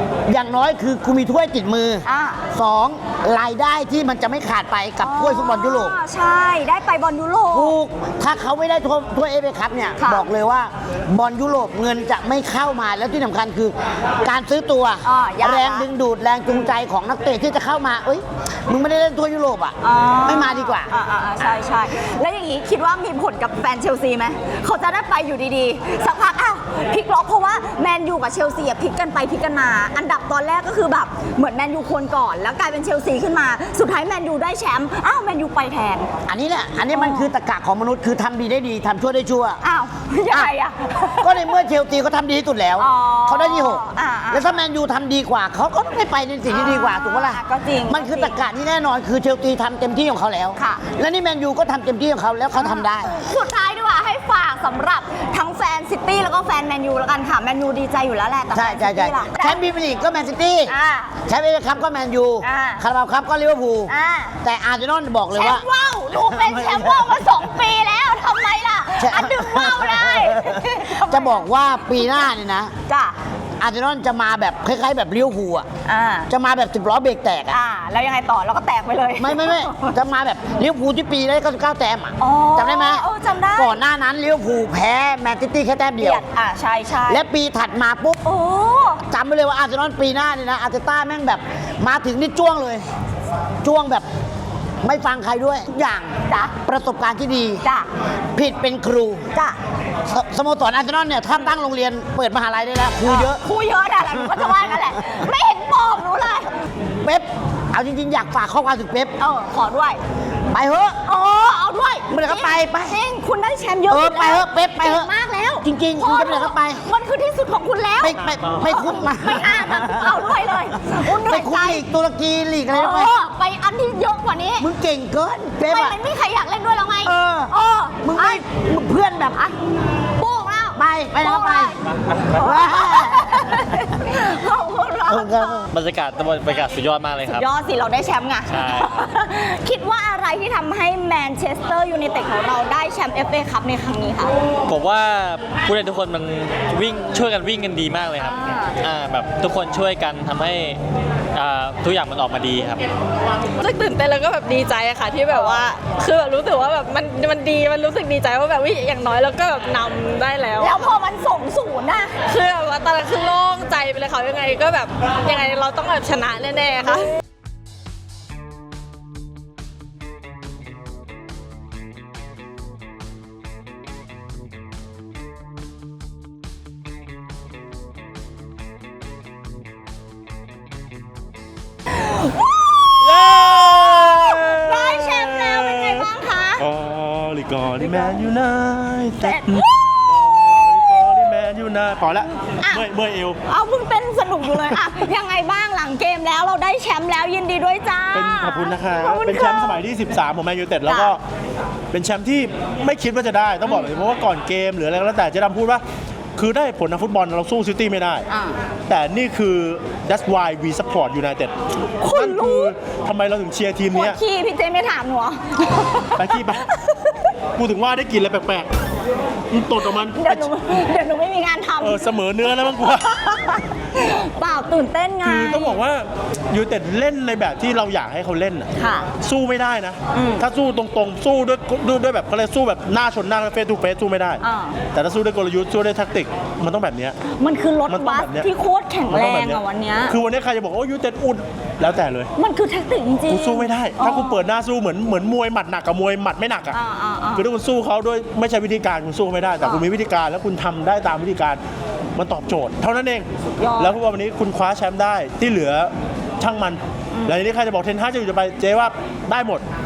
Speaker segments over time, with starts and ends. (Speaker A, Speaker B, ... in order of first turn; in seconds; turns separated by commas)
Speaker A: 0.3-5.9, Speaker B: 2.0-2.4, Speaker B: 5.0-7.7, Speaker A: 7.5-20.9, Speaker B: 10.0-10.2, Speaker B: 15.0-15.8, Speaker B: 19.8-36.1, Speaker A: 36.3-39.6, Speaker B: 36.9-37.3, Speaker B: 39.6-41.5, Speaker A: 41.2-53.1, Speaker B: 42.8-44.6, Speaker B: 46.5-48.4, Speaker B: 50.6-50.8, Speaker B: 52.5-59.6, Speaker A: 58.5-60.7, Speaker B: 60.7-61.1, Speaker A: 61.3-63.9, Speaker B: 62.4-62.8, Speaker B: 63.9-64.3, Speaker A: 64.4-65.6, Speaker B: 65.3-72.2, Speaker A: 66.2-67.2, Speaker A: 69.0-72.7, Speaker B: 72.9-73.2, Speaker A: 73.6-75.7, Speaker B: 75.8-76.3, Speaker A: 76.3-77.6, Speaker B: 77.5-79.9, Speaker A: 79.2-86.2, Speaker B: 82.2-83.8, Speaker B: 86.0-87.2, Speaker A: 87.1-88.2, Speaker B: 88.2-89.0, Speaker A: 89.1-92.8, Speaker A: 93.6-94.0, Speaker A: 94.8-97.6, Speaker B: 96.2-96.5, Speaker B: 97.6-97.9, Speaker A: 98.3-99.2, Speaker A: 100.1-103.4, Speaker B: 103.0-106.5, Speaker A: 104.2-105.0, Speaker A: 107.0-109.1, Speaker B: 109.2-110.0, Speaker A: 110.5-111.0, Speaker B: 111.0-121.8, Speaker A: 112.1-113.0, Speaker A: 113.9-115.1, Speaker A: 115.6-116.8, Speaker A: 118.0-123.1, Speaker B: 122.7-124.7, Speaker A: 124.6-126.0, Speaker B: 125.6-128.4, Speaker A: 127.0-129.5, Speaker B: 130.2-135.7, Speaker A: 130.7-131.8, Speaker A: 132.3-133.8, Speaker A: 135.1-135.7, Speaker C: 135.7-137.5, Speaker B: 137.2-144.3, Speaker C: 138.5-139.1, Speaker C: 144.7-150.8, Speaker B: 148.2-148.7, Speaker C: 151.3-152.8, Speaker D: 153.6-160.9, Speaker B: 160.6-162.1, Speaker D: 162.3-167.1, Speaker E: 183.0-186.0, Speaker B: 183.8-186.6, Speaker E: 186.6-193.4, Speaker B: 187.8-188.2, Speaker B: 189.2-190.0, Speaker B: 192.6-192.8, Speaker B: 193.5-199.8, Speaker E: 194.5-194.8, Speaker E: 198.1-201.2, Speaker B: 200.9-201.1, Speaker E: 201.9-205.8, Speaker B: 203.6-203.9, Speaker E: 206.3-208.2, Speaker B: 208.3-208.6, Speaker E: 208.9-211.5, Speaker B: 212.0-212.7, Speaker E: 212.1-214.2, Speaker B: 213.9-217.2, Speaker E: 216.2-216.6, Speaker E: 217.6-218.7, Speaker E: 219.5-220.5, Speaker B: 220.1-225.8, Speaker E: 221.8-223.2, Speaker E: 225.2-228.7, Speaker B: 228.8-229.1, Speaker E: 229.2-234.4, Speaker B: 230.1-230.4, Speaker B: 234.4-234.8, Speaker E: 234.9-237.2, Speaker B: 237.3-240.1, Speaker E: 237.9-238.5, Speaker E: 239.1-242.3, Speaker B: 242.4-244.4, Speaker E: 243.3-246.8, Speaker B: 246.7-247.4, Speaker E: 247.3-251.6, Speaker E: 252.2-253.3, Speaker B: 253.6-253.9, Speaker E: 253.8-259.6